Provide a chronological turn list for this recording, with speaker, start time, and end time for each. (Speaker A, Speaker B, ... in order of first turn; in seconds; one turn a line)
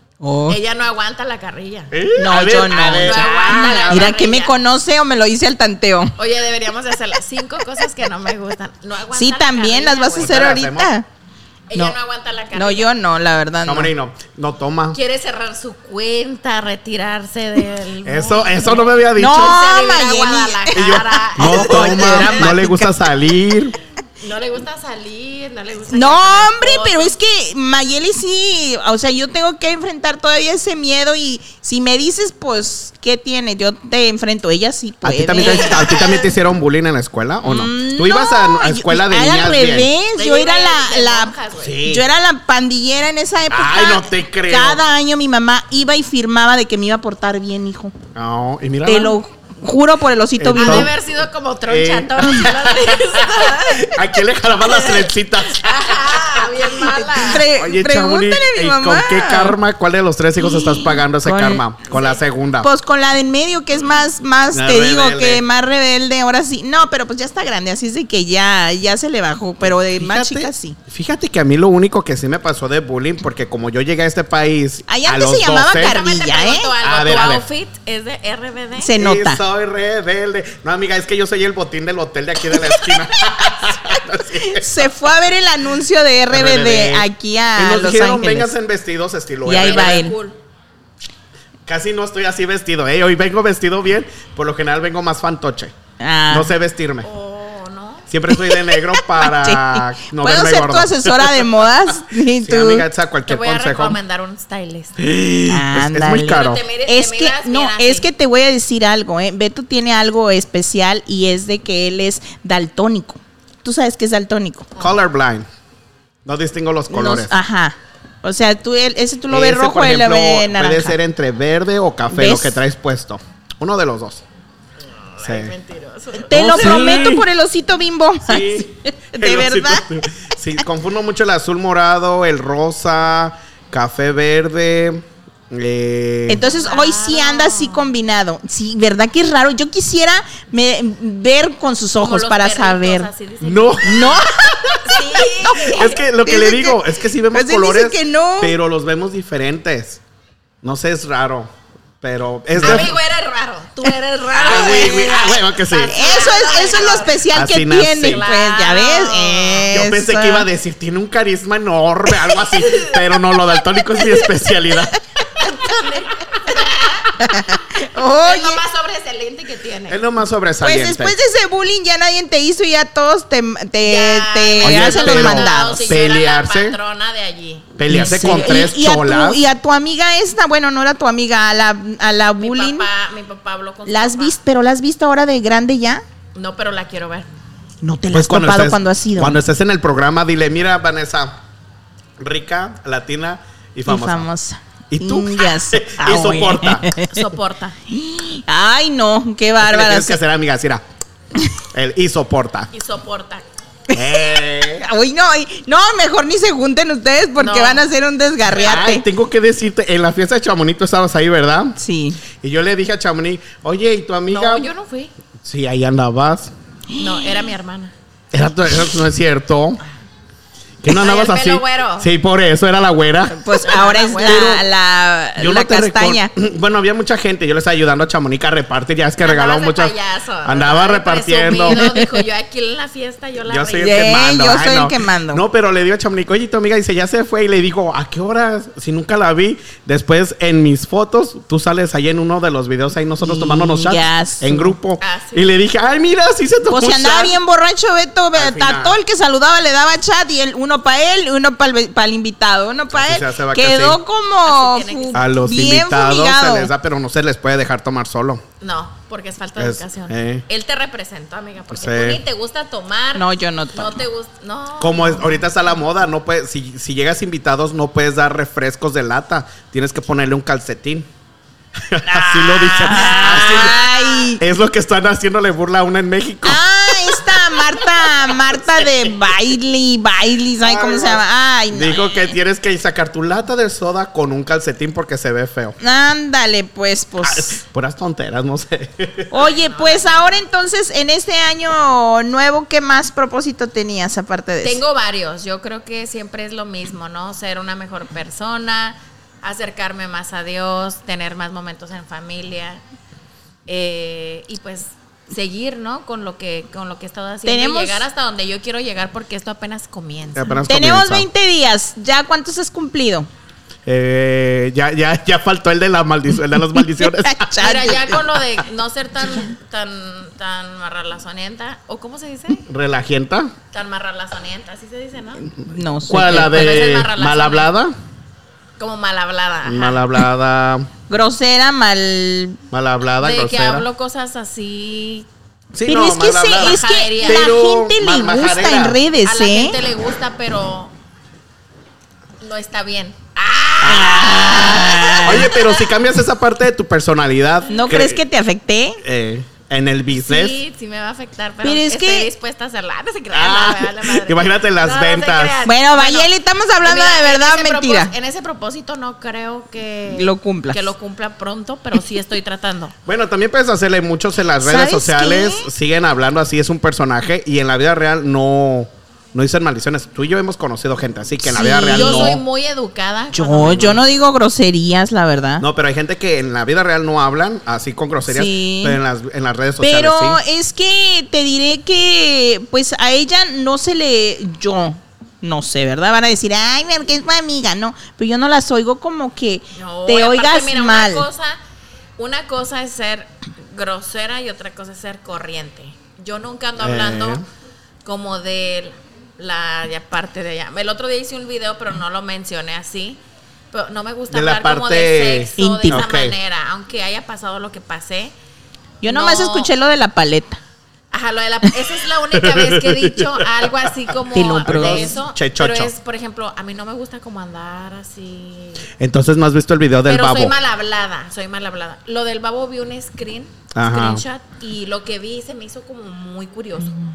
Speaker A: 0.2-0.6
Speaker B: 0.5-1.9
Speaker C: 1.9-4.2
Speaker A: 2.1-6.1
Speaker B: 3.0-4.5
Speaker B: 6.2-10.5
Speaker A: 9.1-11.1
Speaker C: 10.1-10.9
Speaker B: 11.7-12.9
Speaker A: 12.5-13.9
Speaker C: 13.6-15.0
Speaker B: 14.9-22.6
Speaker C: 18.0-19.6
Speaker A: 19.1-23.3
Speaker C: 20.7-23.7
Speaker B: 24.2-27.1
Speaker A: 25.9-36.0
Speaker C: 35.0-39.9
Speaker B: 35.4-36.3
Speaker A: 37.4-47.9
Speaker B: 40.1-41.8
Speaker C: 41.6-42.0
Speaker C: 43.5-44.8
Speaker C: 48.1-49.2
Speaker A: 48.9-50.9
Speaker C: 50.4-50.9
Speaker B: 50.6-54.0
Speaker C: 51.7-56.0
Speaker B: 54.6-57.5
Speaker A: 56.9-59.5
Speaker C: 57.5-62.7
Speaker A: 60.5-61.6
Speaker A: 62.6-70.8
Speaker C: 64.5-65.4
Speaker C: 69.7-76.0
Speaker A: 74.9-76.7
Speaker B: 75.8-78.9
Speaker C: 76.8-77.4
Speaker A: 78.8-79.4
Speaker C: 79.0-84.8
Speaker A: 84.4-88.5
Speaker C: 86.3-90.1
Speaker A: 89.4-90.1
Speaker B: 89.5-90.4
Speaker C: 91.7-95.7
Speaker A: 96.0-96.5
Speaker C: 96.3-97.1
Speaker B: 97.0-98.1
Speaker C: 98.1-101.6
Speaker A: 98.3-102.9
Speaker C: 102.4-104.0
Speaker B: 103.3-105.0
Speaker C: 105.0-106.6
Speaker A: 105.5-114.7
Speaker B: 106.2-108.1
Speaker C: 114.8-115.5
Speaker C: 116.2-117.3
Speaker A: 116.9-121.0
Speaker C: 119.3-124.2
Speaker A: 122.1-122.6
Speaker B: 125.0-127.1
Speaker C: 125.2-125.5
Speaker A: 126.2-129.9
Speaker C: 126.3-127.3
Speaker C: 128.2-136.4
Speaker A: 136.3-143.1
Speaker B: 136.4-137.9
Speaker B: 142.0-146.0
Speaker C: 143.4-144.3
Speaker A: 143.8-148.5
Speaker C: 145.6-150.0
Speaker C: 150.6-152.9
Speaker B: 152.5-157.2
Speaker A: 152.6-152.8
Speaker A: 154.3-155.2
Speaker C: 154.4-156.0
Speaker A: 155.9-160.4
Speaker C: 157.3-158.2
Speaker B: 158.0-159.7
Speaker C: 159.7-164.9
Speaker B: 162.5-162.9
Speaker B: 165.4-167.2
Speaker A: 167.2-168.6
Speaker B: 168.2-170.0
Speaker C: 169.9-171.2
Speaker A: 170.6-175.9
Speaker B: 173.8-178.6
Speaker C: 174.6-176.8
Speaker C: 177.8-179.4
Speaker A: 177.9-182.9
Speaker B: 182.4-184.4
Speaker A: 183.9-186.0
Speaker B: 186.3-187.3
Speaker A: 187.8-189.4
Speaker C: 188.1-191.4
Speaker C: 192.2-194.3
Speaker A: 193.8-197.2
Speaker C: 194.9-196.9
Speaker B: 197.0-197.8
Speaker A: 197.9-200.2
Speaker C: 199.6-200.8
Speaker C: 201.7-202.7
Speaker B: 202.7-203.4
Speaker A: 203.9-209.0
Speaker C: 203.9-204.8
Speaker B: 207.4-207.8
Speaker B: 208.5-208.7
Speaker C: 208.6-211.8
Speaker A: 211.8-212.2
Speaker C: 212.3-214.7
Speaker B: 214.3-215.1
Speaker C: 215.4-216.5
Speaker B: 216.9-217.9
Speaker A: 217.0-217.3
Speaker C: 218.3-219.8
Speaker C: 220.8-224.7
Speaker B: 220.9-222.1
Speaker A: 223.3-226.3
Speaker B: 223.6-224.5
Speaker C: 225.4-231.8
Speaker B: 229.2-234.1
Speaker A: 231.7-232.2
Speaker C: 233.5-247.3
Speaker A: 233.8-235.4
Speaker A: 243.2-244.7
Speaker B: 245.0-245.5
Speaker A: 246.7-256.7
Speaker C: 248.3-249.0
Speaker C: 252.9-254.0
Speaker B: 254.4-255.3
Speaker C: 255.1-258.4
Speaker B: 258.6-265.4
Speaker C: 259.6-260.4
Speaker C: 261.7-262.2
Speaker A: 263.1-264.0
Speaker C: 264.8-271.1
Speaker C: 271.8-273.8
Speaker A: 272.1-274.4
Speaker B: 273.3-274.3
Speaker C: 274.4-279.1
Speaker A: 276.4-282.3
Speaker C: 280.6-285.8
Speaker A: 285.8-287.6
Speaker C: 287.2-289.3
Speaker A: 289.3-294.8
Speaker B: 289.4-290.4
Speaker B: 294.6-302.8
Speaker B: 303.7-310.6
Speaker A: 307.4-308.0
Speaker C: 310.3-311.3
Speaker A: 310.7-313.3
Speaker C: 313.9-317.7
Speaker A: 316.7-318.3
Speaker B: 317.6-322.6
Speaker C: 322.7-323.5
Speaker B: 323.7-325.5
Speaker A: 325.5-327.0
Speaker C: 326.1-327.9
Speaker B: 326.4-327.7
Speaker B: 328.8-330.0
Speaker C: 329.6-330.9
Speaker A: 331.1-332.6
Speaker C: 332.7-333.9
Speaker B: 333.2-335.3
Speaker C: 335.7-339.0
Speaker A: 335.9-339.8
Speaker B: 336.5-337.6
Speaker B: 339.2-340.9
Speaker B: 342.4-345.7
Speaker C: 343.8-344.1
Speaker A: 343.8-345.5
Speaker C: 345.2-348.2
Speaker A: 347.7-349.0
Speaker C: 349.0-350.6
Speaker B: 350.2-356.3
Speaker A: 351.6-352.3
Speaker C: 353.3-355.6
Speaker A: 355.6-358.1
Speaker B: 356.8-362.9
Speaker A: 360.1-360.9
Speaker C: 363.1-372.4
Speaker A: 364.6-365.7
Speaker A: 371.4-372.4
Speaker B: 371.9-374.0
Speaker A: 373.3-375.6
Speaker C: 373.6-374.0
Speaker C: 375.6-380.4
Speaker A: 378.3-379.0
Speaker A: 379.8-391.2
Speaker B: 389.7-391.6
Speaker B: 392.2-397.4
Speaker C: 396.8-397.4
Speaker B: 398.0-403.2
Speaker B: 403.7-408.3
Speaker C: 404.3-406.3
Speaker A: 405.6-406.1
Speaker A: 409.0-410.6
Speaker B: 409.0-409.7
Speaker B: 411.1-418.9
Speaker C: 412.3-415.9
Speaker A: 414.3-415.2
Speaker C: 419.0-420.5
Speaker B: 420.1-426.9
Speaker C: 423.7-424.2